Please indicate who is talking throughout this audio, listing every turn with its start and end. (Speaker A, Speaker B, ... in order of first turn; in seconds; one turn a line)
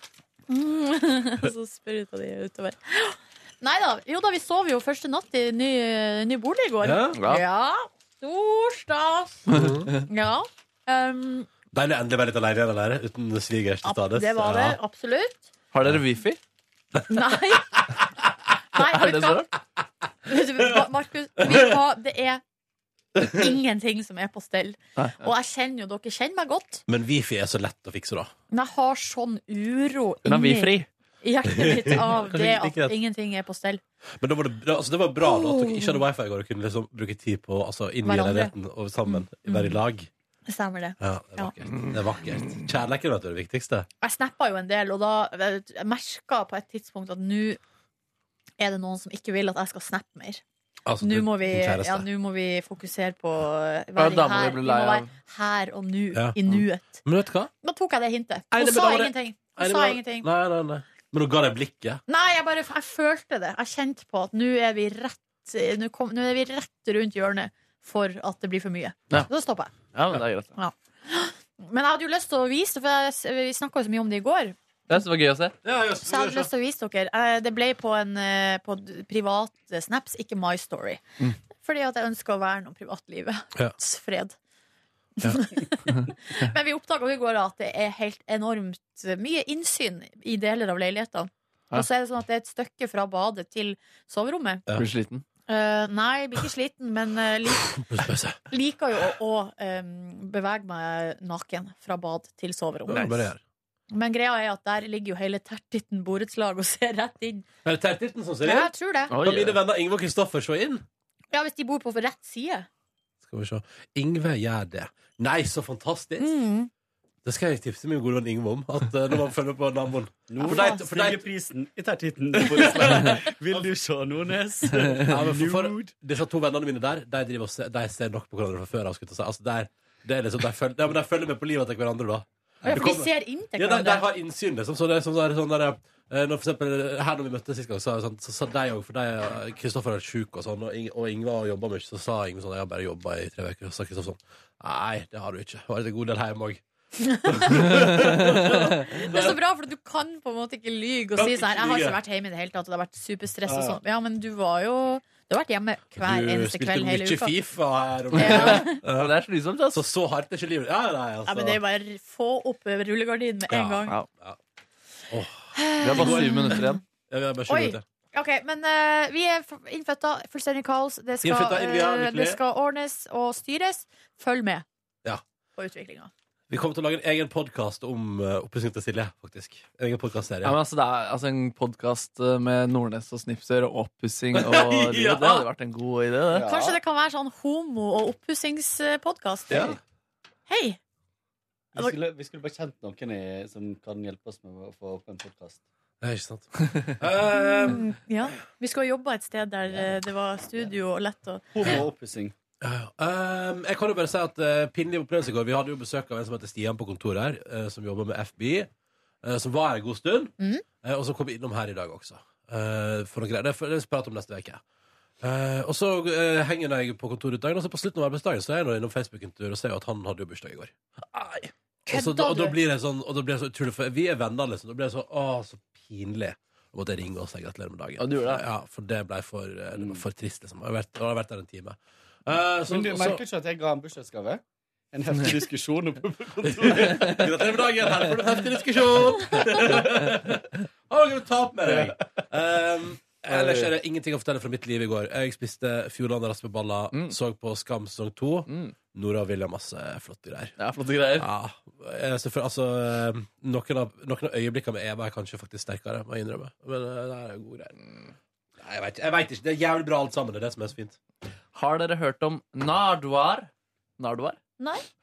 Speaker A: 0.5-9.5
Speaker B: 6.8-7.2
Speaker C: 7.2-7.4
Speaker C: 9.5-9.9
Speaker B: 9.5-9.9
Speaker A: 10.1-11.5
Speaker B: 11.7-14.8
Speaker A: 13.8-15.5
Speaker C: 15.7-16.4
Speaker A: 17.1-17.8
Speaker A: 18.7-19.5
Speaker C: 18.8-19.5
Speaker A: 20.3-22.4
Speaker B: 21.4-21.6
Speaker A: 23.2-26.8
Speaker C: 25.0-25.3
Speaker B: 26.9-28.3
Speaker A: 28.5-33.8
Speaker C: 30.2-30.9
Speaker B: 31.5-32.9
Speaker B: 34.2-40.1
Speaker A: 35.2-36.0
Speaker A: 38.0-38.5
Speaker A: 39.0-39.8
Speaker A: 40.5-41.5
Speaker B: 41.0-43.9
Speaker A: 44.0-47.6
Speaker A: 48.6-50.4
Speaker B: 50.9-52.0
Speaker A: 51.0-57.0
Speaker C: 54.0-55.1
Speaker B: 56.1-57.5
Speaker A: 57.6-60.3
Speaker B: 58.5-62.0
Speaker A: 62.1-69.7
Speaker C: 69.9-70.5
Speaker A: 70.5-74.5
Speaker C: 74.9-75.5
Speaker B: 75.6-76.5
Speaker A: 76.0-81.0
Speaker A: 81.6-84.3
Speaker A: 85.2-94.6
Speaker C: 94.8-95.2
Speaker A: 95.5-97.7
Speaker B: 97.6-98.4
Speaker A: 98.5-103.2
Speaker B: 102.9-103.4
Speaker A: 103.9-107.4
Speaker B: 107.6-110.8
Speaker A: 108.4-109.1
Speaker C: 109.1-109.6
Speaker A: 111.3-112.7
Speaker B: 113.2-116.3
Speaker A: 116.2-116.7
Speaker B: 117.2-121.2
Speaker D: 120.3-125.9
Speaker A: 120.5-120.8
Speaker B: 122.7-123.1
Speaker B: 125.0-146.6
Speaker D: 132.6-132.9
Speaker A: 132.6-134.1
Speaker A: 147.0-147.9
Speaker B: 147.2-149.4
Speaker A: 148.9-157.3
Speaker B: 151.1-152.0
Speaker B: 156.0-159.1
Speaker A: 158.1-158.8
Speaker C: 158.2-159.8
Speaker B: 159.7-161.6
Speaker A: 161.3-163.9
Speaker B: 163.5-164.4
Speaker B: 165.1-167.8
Speaker A: 165.5-166.8
Speaker C: 165.8-166.8
Speaker A: 167.5-174.6
Speaker B: 171.2-172.4
Speaker A: 175.6-176.1
Speaker B: 176.5-180.6
Speaker C: 180.4-186.5
Speaker B: 184.3-185.4
Speaker D: 186.3-186.8
Speaker A: 186.4-189.7
Speaker A: 190.5-190.8
Speaker D: 191.7-195.6
Speaker B: 196.0-197.9
Speaker A: 197.4-201.5
Speaker D: 201.5-202.3
Speaker B: 202.6-208.7
Speaker B: 209.2-214.6
Speaker B: 215.2-220.7
Speaker C: 221.1-221.5
Speaker A: 221.9-222.6
Speaker B: 221.9-233.2
Speaker C: 228.0-228.4
Speaker D: 229.7-230.0
Speaker D: 232.7-237.3
Speaker B: 236.5-250.6
Speaker D: 241.7-241.9
Speaker D: 243.2-243.7
Speaker C: 248.5-248.7
Speaker C: 250.6-251.3
Speaker B: 251.2-257.8
Speaker B: 258.6-261.0
Speaker C: 261.5-264.4
Speaker A: 264.6-264.8